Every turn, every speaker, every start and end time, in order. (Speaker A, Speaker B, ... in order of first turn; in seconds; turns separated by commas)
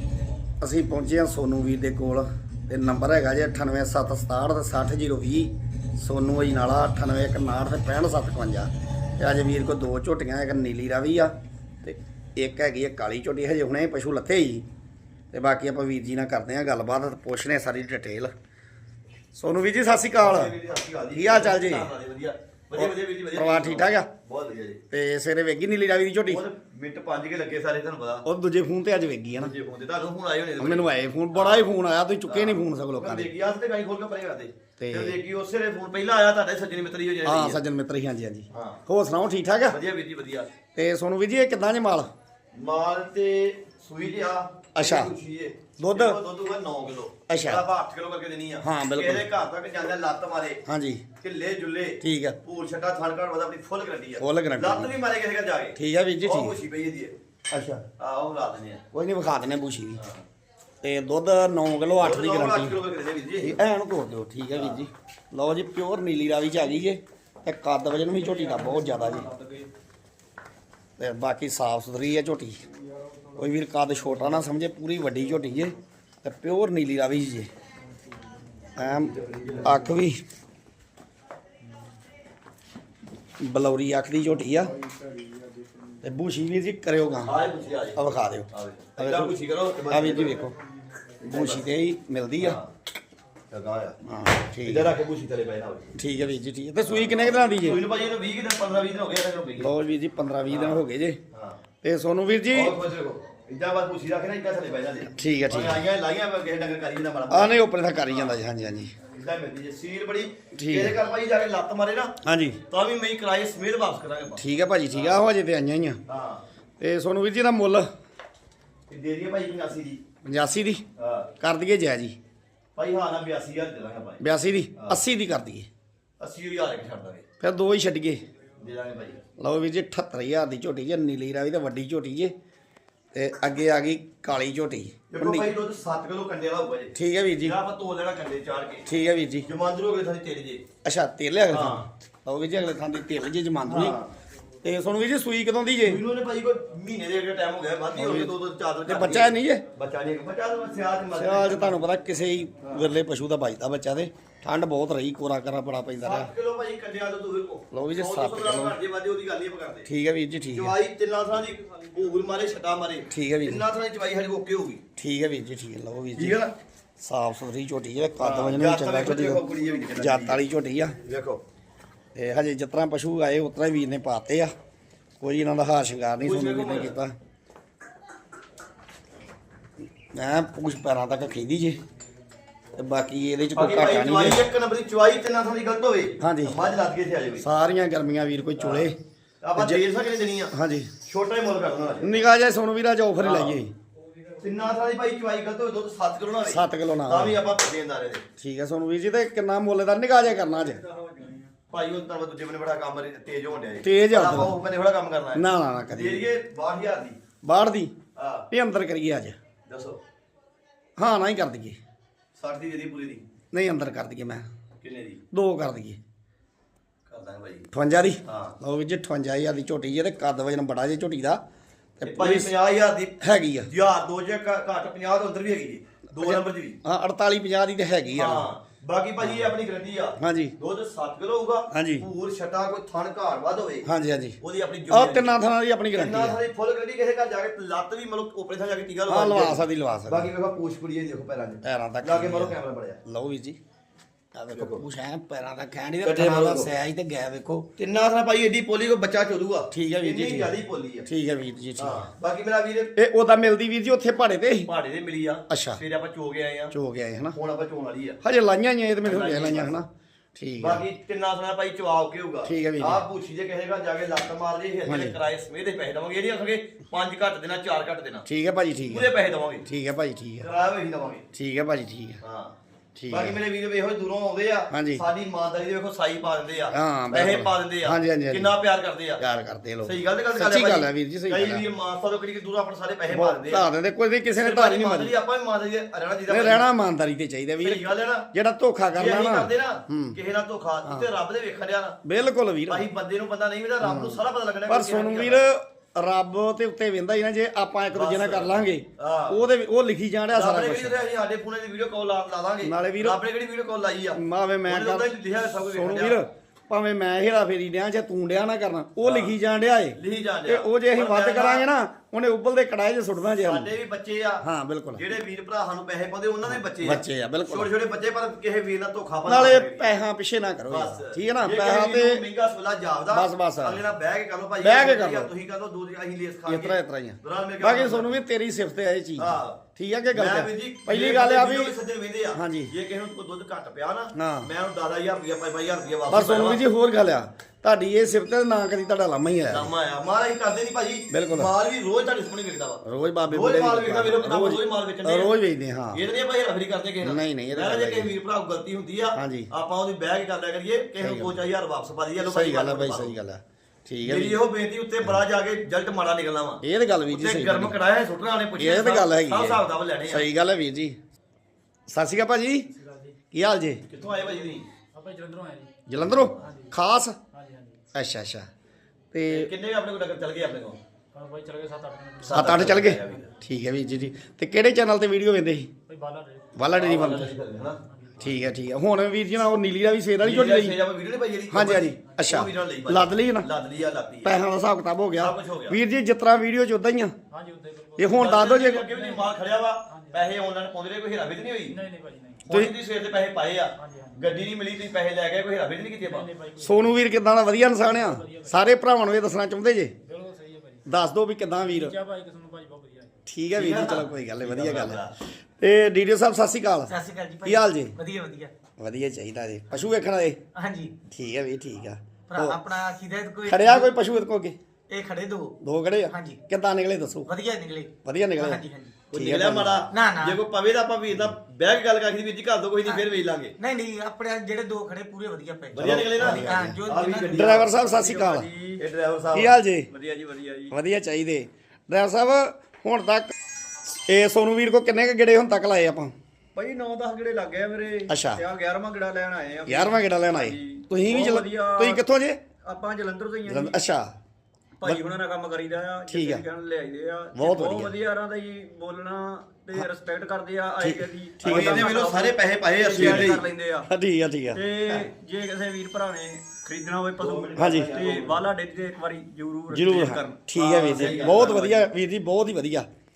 Speaker A: 0.6-14.6, Speaker A: 15.3-18.3, Speaker A: 19.3-20.5, Speaker B: 20.2-24.8, Speaker A: 21.1-21.9, Speaker A: 22.8-24.1, Speaker A: 24.9-26.4, Speaker B: 26.3-28.2, Speaker A: 28.2-29.5, Speaker B: 29.4-31.7, Speaker A: 30.6-33.3, Speaker B: 32.3-37.6, Speaker A: 34.8-35.2, Speaker A: 37.2-39.8, Speaker B: 38.5-38.8, Speaker B: 39.7-40.5, Speaker A: 40.7-42.1, Speaker B: 42.5-50.6, Speaker A: 44.7-45.1, Speaker A: 45.8-46.2, Speaker A: 47.3-47.6, Speaker A: 48.6-49.2, Speaker A: 50.6-51.0, Speaker B: 51.2-57.1, Speaker A: 52.0-52.4, Speaker A: 54.2-54.9, Speaker A: 55.8-56.5, Speaker A: 57.5-57.8, Speaker B: 58.0-58.8, Speaker A: 58.9-60.0, Speaker B: 60.0-60.2, Speaker A: 60.8-62.8, Speaker B: 62.0-63.6, Speaker A: 63.4-69.3, Speaker B: 64.5-64.8, Speaker B: 68.2-69.6, Speaker A: 71.0-72.6, Speaker A: 73.3-77.5, Speaker A: 78.8-80.2, Speaker B: 79.1-79.8, Speaker A: 83.4-84.7, Speaker A: 86.0-87.3, Speaker B: 87.2-90.4, Speaker A: 88.0-89.3, Speaker A: 89.9-90.5, Speaker B: 91.2-91.7, Speaker A: 91.3-92.6, Speaker B: 92.4-92.7, Speaker B: 93.5-94.0, Speaker A: 94.0-94.9, Speaker B: 94.6-95.9, Speaker A: 96.0-97.8, Speaker B: 96.8-99.7, Speaker A: 99.6-101.2, Speaker B: 100.5-101.6, Speaker A: 101.8-102.8, Speaker B: 102.5-108.4, Speaker A: 105.1-105.8, Speaker A: 107.3-108.9, Speaker B: 109.0-115.2, Speaker A: 110.5-111.0, Speaker A: 112.2-112.6, Speaker A: 114.4-116.0, Speaker B: 116.1-116.4, Speaker A: 116.8-117.9, Speaker B: 118.9-120.0, Speaker A: 120.2-120.8, Speaker B: 121.0-121.3, Speaker A: 121.4-122.2, Speaker B: 122.8-124.2, Speaker A: 124.2-125.7, Speaker B: 126.2-127.2, Speaker A: 127.4-128.2, Speaker B: 128.6-129.2, Speaker A: 129.4-132.3, Speaker A: 133.1-135.4, Speaker B: 135.1-138.8, Speaker A: 136.9-137.6, Speaker A: 138.8-139.5, Speaker B: 139.4-140.6, Speaker A: 140.8-144.0, Speaker B: 141.5-141.9, Speaker B: 143.7-144.1, Speaker A: 144.6-146.0, Speaker B: 145.8-151.8, Speaker A: 148.0-148.3, Speaker A: 148.8-149.6, Speaker A: 151.1-156.3, Speaker B: 156.0-159.9, Speaker A: 157.7-158.8, Speaker A: 159.8-160.7, Speaker B: 160.5-164.8, Speaker A: 163.1-163.6, Speaker A: 165.0-166.4, Speaker B: 166.2-166.5, Speaker A: 167.0-169.4, Speaker B: 168.2-170.4, Speaker A: 169.9-171.0, Speaker B: 171.0-171.4, Speaker A: 172.1-174.5, Speaker A: 175.2-177.1, Speaker B: 176.2-176.9, Speaker A: 180.1-181.8, Speaker A: 182.7-184.4, Speaker B: 183.5-187.4, Speaker A: 186.2-186.6, Speaker A: 187.4-188.9, Speaker B: 188.6-188.9, Speaker B: 189.4-190.5, Speaker A: 190.5-190.9, Speaker B: 191.0-192.2, Speaker A: 192.0-193.7, Speaker B: 193.2-193.6, Speaker B: 194.4-198.2, Speaker A: 196.4-197.4, Speaker A: 198.4-200.8, Speaker C: 200.8-201.4, Speaker B: 201.7-207.2, Speaker A: 203.8-204.6, Speaker A: 205.3-206.2, Speaker A: 207.4-207.9, Speaker B: 208.1-208.5, Speaker A: 208.5-209.3, Speaker B: 209.7-210.0, Speaker A: 211.0-211.8, Speaker B: 212.3-213.2, Speaker A: 213.5-214.4, Speaker B: 214.8-215.2, Speaker A: 215.3-216.0, Speaker B: 217.1-217.7, Speaker A: 217.7-221.4, Speaker B: 218.2-218.6, Speaker A: 222.0-222.5, Speaker B: 222.0-223.2, Speaker A: 223.2-223.7, Speaker B: 223.7-226.8, Speaker A: 226.2-228.4, Speaker B: 228.1-233.9, Speaker A: 229.2-229.5, Speaker A: 230.2-230.5, Speaker A: 231.7-232.1, Speaker A: 233.8-234.4, Speaker B: 234.4-235.3, Speaker A: 234.9-236.4, Speaker B: 235.9-243.0, Speaker A: 239.1-240.3, Speaker A: 241.6-243.6, Speaker A: 244.3-247.7, Speaker B: 244.5-244.8, Speaker B: 246.0-246.7, Speaker B: 247.8-251.1, Speaker A: 249.7-250.5, Speaker A: 251.1-252.1, Speaker B: 251.8-252.9, Speaker A: 252.9-254.7, Speaker B: 254.7-256.7, Speaker A: 255.5-255.8, Speaker A: 256.7-257.4, Speaker B: 257.3-258.2, Speaker A: 258.2-260.8, Speaker B: 259.0-259.8, Speaker B: 260.6-268.2, Speaker A: 262.4-263.0, Speaker A: 264.9-265.2, Speaker A: 268.3-269.1, Speaker B: 268.9-269.6, Speaker A: 269.6-270.4, Speaker B: 270.4-271.3, Speaker A: 271.3-272.2, Speaker B: 272.2-272.6, Speaker A: 272.9-273.4, Speaker B: 273.1-279.2, Speaker A: 274.7-275.0, Speaker A: 276.7-278.5, Speaker A: 279.2-281.6, Speaker B: 279.8-283.7, Speaker A: 283.1-285.1, Speaker B: 284.4-286.6, Speaker A: 286.3-290.2, Speaker B: 287.6-288.3, Speaker B: 288.9-292.0, Speaker A: 292.0-292.8, Speaker B: 292.7-295.4, Speaker A: 293.8-300.9, Speaker B: 297.9-299.4, Speaker B: 300.3-306.2, Speaker A: 302.6-303.2, Speaker A: 304.1-305.1, Speaker A: 305.6-313.7, Speaker B: 309.0-309.3, Speaker B: 309.9-311.6, Speaker B: 313.4-314.4, Speaker A: 314.4-315.0, Speaker B: 314.9-319.8, Speaker A: 316.5-317.7, Speaker A: 319.2-322.2, Speaker B: 320.7-328.2, Speaker A: 323.1-323.8, Speaker A: 324.6-325.3, Speaker A: 326.5-331.7, Speaker B: 329.2-329.6, Speaker B: 330.1-336.6, Speaker A: 332.3-332.7, Speaker A: 334.1-334.5, Speaker A: 336.1-339.7, Speaker B: 339.5-345.3, Speaker A: 341.1-341.5, Speaker A: 342.8-346.0, Speaker B: 345.9-353.2, Speaker A: 347.0-348.1, Speaker A: 349.1-349.5, Speaker A: 351.0-351.4, Speaker A: 352.2-354.4, Speaker B: 354.0-360.3, Speaker A: 356.6-357.7, Speaker A: 358.6-361.0, Speaker A: 361.9-362.7, Speaker D: 362.8-363.1, Speaker A: 363.3-363.8, Speaker B: 363.9-364.6, Speaker D: 364.9-365.7, Speaker A: 365.9-367.2, Speaker B: 366.0-366.5, Speaker D: 366.4-366.7, Speaker D: 367.3-367.8, Speaker A: 367.9-368.5, Speaker A: 369.1-369.5, Speaker B: 369.3-370.8, Speaker D: 371.1-372.3, Speaker B: 372.2-373.3, Speaker A: 372.3-375.7, Speaker D: 375.9-376.4, Speaker A: 376.5-377.3, Speaker B: 376.7-377.8, Speaker A: 378.2-380.8, Speaker B: 380.2-384.3, Speaker A: 381.5-383.5, Speaker A: 384.2-387.1, Speaker B: 385.2-385.8, Speaker D: 387.3-388.1, Speaker A: 388.0-388.9, Speaker B: 388.1-391.8, Speaker D: 389.9-390.2, Speaker D: 391.7-392.4, Speaker B: 392.4-396.3, Speaker D: 393.8-394.2, Speaker D: 396.1-397.0, Speaker A: 396.6-399.9, Speaker D: 397.8-398.5, Speaker D: 400.1-400.8, Speaker A: 400.9-401.9, Speaker D: 401.7-403.1, Speaker A: 403.2-407.9, Speaker B: 403.5-405.1, Speaker E: 406.9-408.5, Speaker A: 408.8-410.4, Speaker E: 410.5-410.9, Speaker A: 411.1-412.6, Speaker E: 412.3-413.9, Speaker A: 413.4-414.6, Speaker E: 414.9-415.6, Speaker A: 415.6-417.3, Speaker E: 416.1-416.4, Speaker E: 417.3-418.9, Speaker A: 418.0-419.8, Speaker B: 419.1-423.5, Speaker E: 419.9-420.4, Speaker E: 423.6-427.6, Speaker B: 425.7-427.8, Speaker A: 425.8-426.8, Speaker A: 427.3-428.5, Speaker C: 427.7-428.8, Speaker B: 428.8-430.3, Speaker A: 429.3-429.9, Speaker C: 430.3-430.7, Speaker A: 430.7-433.3, Speaker A: 433.9-436.1, Speaker C: 436.5-442.0, Speaker A: 438.1-438.4, Speaker A: 439.6-442.4, Speaker C: 442.6-443.8, Speaker A: 443.5-444.1, Speaker C: 444.8-453.9, Speaker A: 446.1-446.4, Speaker A: 447.3-447.9, Speaker A: 450.8-451.9, Speaker B: 451.4-453.4, Speaker A: 452.9-454.6, Speaker C: 454.6-461.5, Speaker B: 457.2-458.4, Speaker A: 457.6-457.9, Speaker A: 459.7-462.9, Speaker B: 460.5-461.9